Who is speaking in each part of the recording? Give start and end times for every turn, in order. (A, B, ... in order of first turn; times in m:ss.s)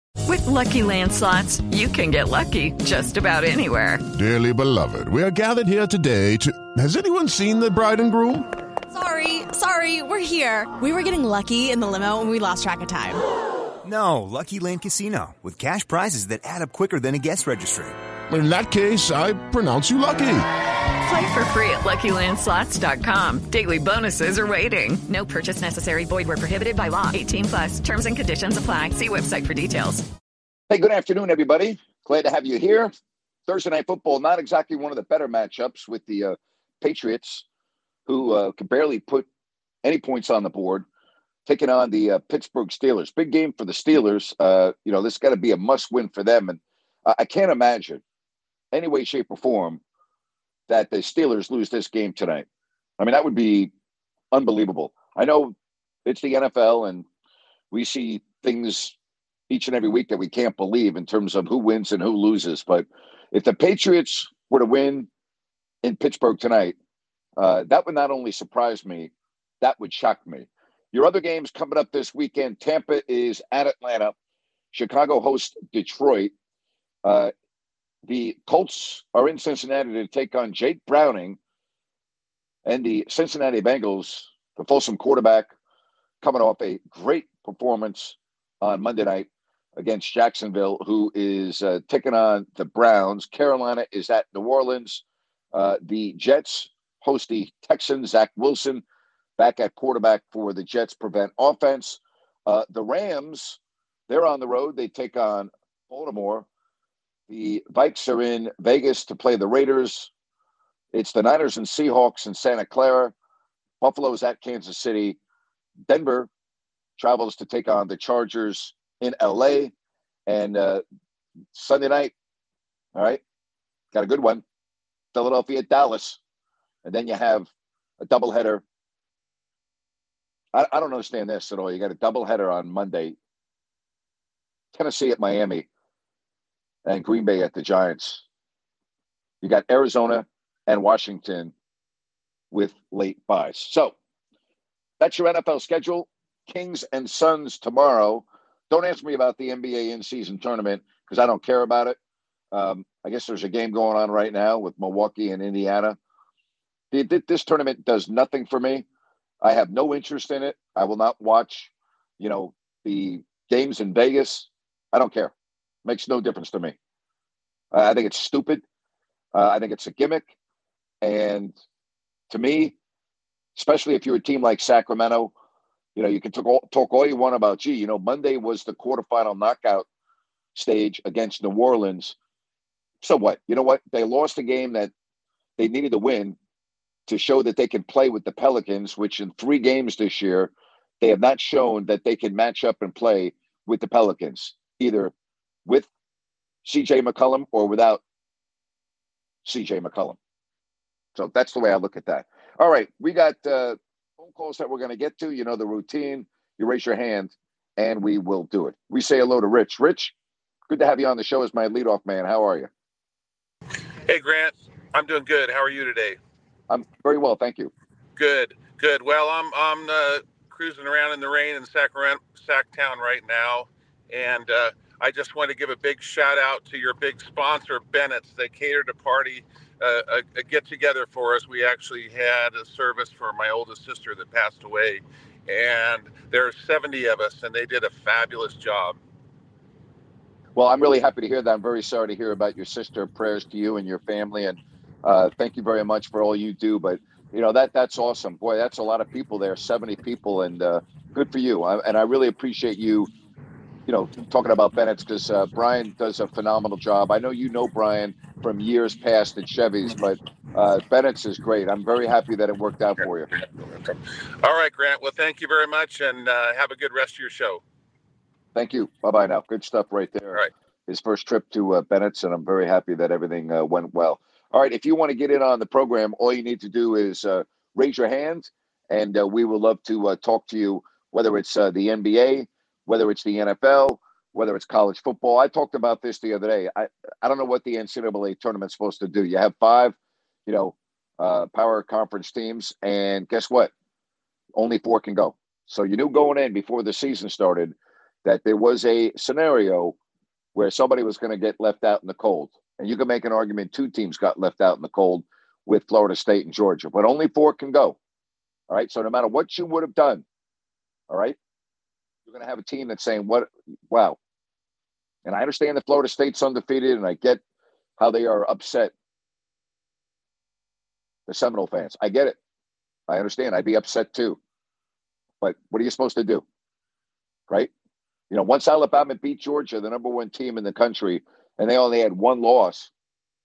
0:00.3-0:04.0 A
0:04.1-0:08.5 B
0:08.9-0:13.2 C
0:13.8-0:18.0 D
0:18.3-0:20.5 B
0:21.0-0:30.0 A
0:30.7-0:32.9 E
0:33.5-0:37.4 E
0:38.1-0:39.3 E
0:39.8-0:40.9 E
0:41.5-0:48.0 E
0:48.7-0:49.8 E
0:50.7-0:52.5 E
0:53.0-0:53.7 E
0:54.3-0:57.0 E
0:57.7-0:59.0 E
0:59.5-1:05.1 E
1:05.8-1:06.8 E
1:07.4-1:14.2 E
1:14.7-1:16.3 E
1:17.0-1:17.3 E
1:18.1-1:21.4 E
1:22.7-1:25.5 E
1:26.2-1:38.8 E
1:39.4-1:46.5 E
1:47.3-1:50.1 E
1:50.9-1:53.1 E
1:53.8-1:55.2 E
1:55.9-1:56.3 E
1:57.0-1:59.7 E
2:00.3-2:00.8 E
2:01.5-2:02.1 E
2:03.0-2:03.2 E
2:03.9-2:04.4 E
2:05.1-2:06.2 E
2:06.8-2:07.5 E
2:08.0-2:08.6 E
2:10.5-2:13.2 E
2:14.7-2:15.7 E
2:16.8-2:18.2 E
2:19.4-2:21.5 E
2:22.5-2:24.0 E
2:25.0-2:32.0 E
2:32.5-2:36.0 E
2:36.9-2:38.9 E
2:39.4-2:45.3 E
2:45.8-2:46.8 E
2:47.7-2:48.6 E
2:49.3-2:50.3 E
2:51.0-2:51.6 E
2:52.3-2:52.8 E
2:53.6-2:55.3 E
2:56.0-2:59.9 E
3:00.6-3:02.2 E
3:03.0-3:04.9 E
3:05.6-3:06.4 E
3:07.1-3:15.1 E
3:16.6-3:18.0 E
3:19.4-3:20.2 E
3:21.2-3:30.1 E
3:30.7-3:32.7 E
3:34.1-3:36.2 F
3:36.7-3:37.7 E
3:38.2-3:59.0 F
4:00.6-4:13.1 E
4:13.9-4:23.3 E
4:23.6-4:27.6 F
4:28.6-4:53.7 E
4:54.6-5:00.0 E
5:00.6-5:08.0 E
5:08.7-5:10.2 E
5:11.1-5:11.4 E
5:12.3-5:14.2 E
5:15.3-5:17.4 E
5:18.0-5:18.9 E
5:21.3-5:22.4 E
5:23.1-5:24.4 E
5:25.4-5:26.4 E
5:28.3-5:32.9 E